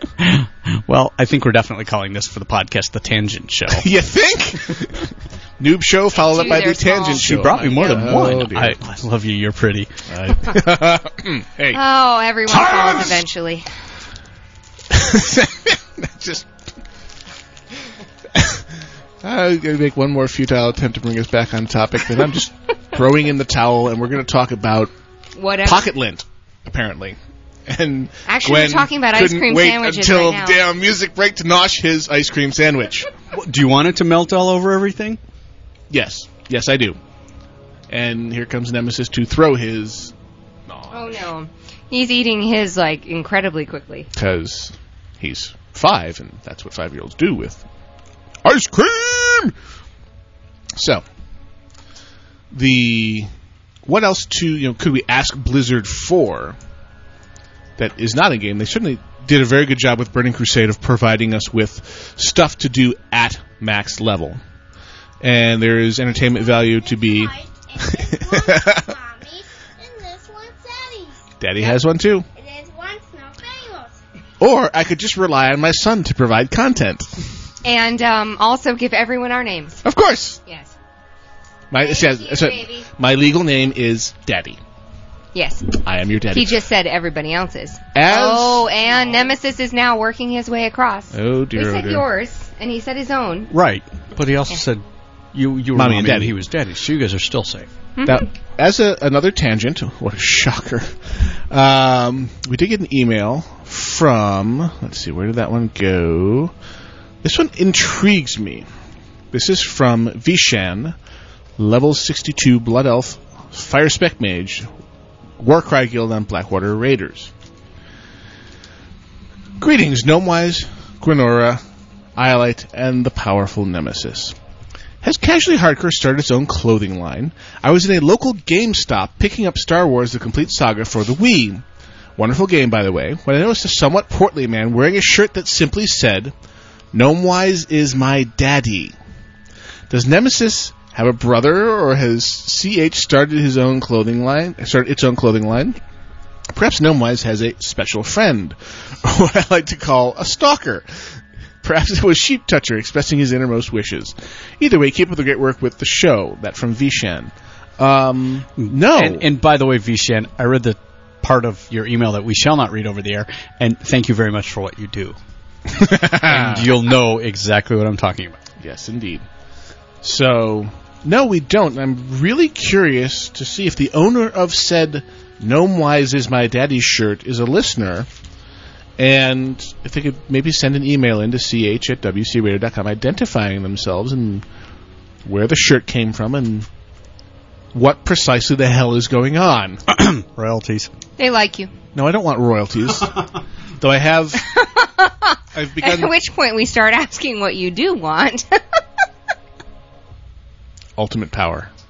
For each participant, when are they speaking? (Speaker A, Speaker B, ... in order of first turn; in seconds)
Speaker A: 0.2-3.9, 7.1-9.9, 33.3-35.2, 93.5-94.8, 95.3-97.7, 158.6-165.2, 166.1-168.4, 189.9-190.9
Speaker B: 3.7-8.8, 10.1-11.8, 14.9-16.5, 18.3-18.7, 19.2-24.9, 25.6-33.1, 35.9-37.0, 37.9-40.1, 40.7-41.1, 44.1-47.6, 48.4-49.5, 50.8-51.0, 52.5-53.3, 53.8-56.6, 57.8-64.4, 65.2-67.3, 68.3-68.9, 71.4-72.3, 74.4-77.2, 79.8-80.4, 81.7-84.6, 85.8-86.6, 87.9-88.7, 91.1-92.0, 95.7-96.3, 98.0-100.9, 101.5-106.5, 107.2-108.7, 109.3-111.0, 111.6-114.7, 115.4-117.3, 119.6-121.6, 122.2-124.3, 125.0-131.6, 132.2-136.3, 136.9-138.9, 139.9-145.8, 146.5-159.3, 165.7-166.7, 168.6-169.2, 170.0-178.1, 179.0-184.4, 185.2-186.7, 187.7-189.8, 191.9-193.3, 193.8-194.4, 195.5-196.1, 200.9-201.7
Speaker C: 6.1-7.7, 11.7-13.7, 25.4-25.9, 28.3-30.6, 40.9-44.1, 77.6-79.8, 81.8-82.9, 85.3-93.5, 98.0-98.2, 191.2-191.7, 194.4-198.8
Speaker D: 66.1-71.7, 72.3-74.0